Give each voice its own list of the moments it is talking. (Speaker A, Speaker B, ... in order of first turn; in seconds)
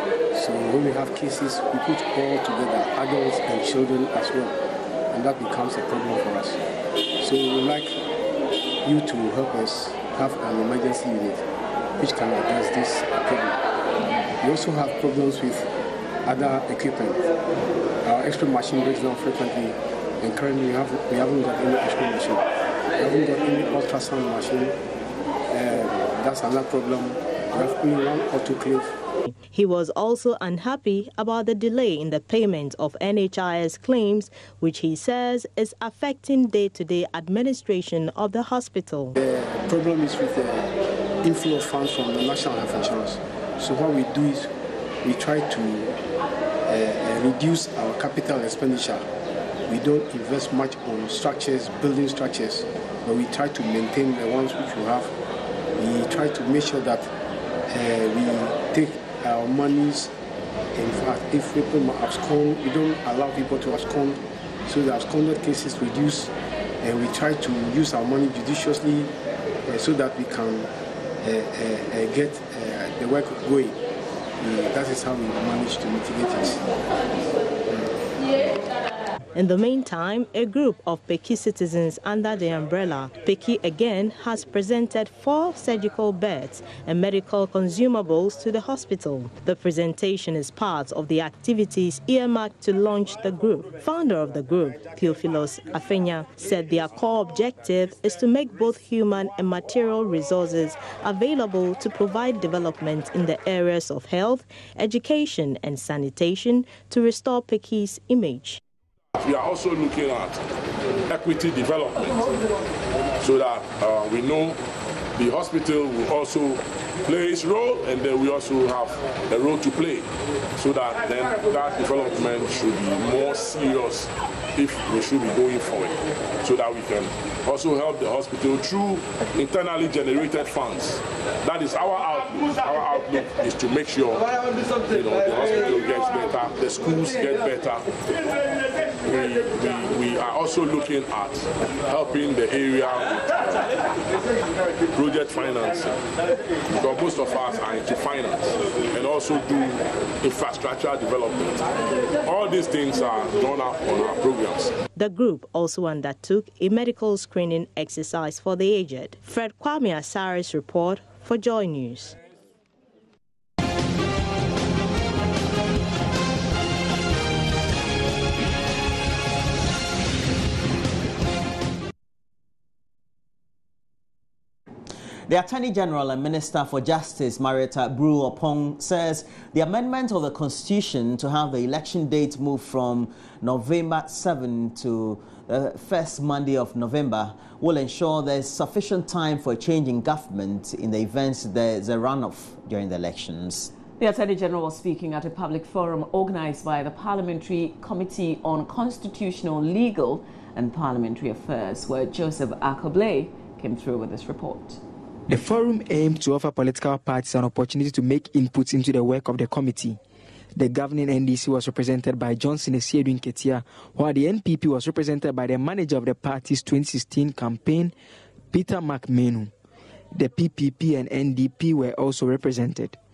Speaker A: 0.3-4.6, 5.1-6.6, 7.2-7.9, 8.8-11.4, 12.0-13.6, 14.4-15.7, 16.2-17.2, 18.0-22.4, 23.0-24.7, 25.5-28.9, 39.1-44.5, 45.0-45.9, 46.7-49.0, 49.7-55.1, 55.8-57.1, 57.7-60.1, 60.7-69.1, 69.7-70.7, 71.2-73.8, 74.4-76.6
Speaker B: 29.3-39.1, 79.3-108.6, 154.9-162.2
Speaker C: 109.2-110.4, 111.1-112.1, 113.2-114.6, 115.2-137.9, 139.0-143.7, 144.9-146.0, 146.7-151.7, 152.2-154.7
Speaker D: 175.3-193.7
Speaker E: 194.0-204.8
Speaker F: 205.3-210.0, 210.5-217.9, 218.5-219.5, 220.1-223.0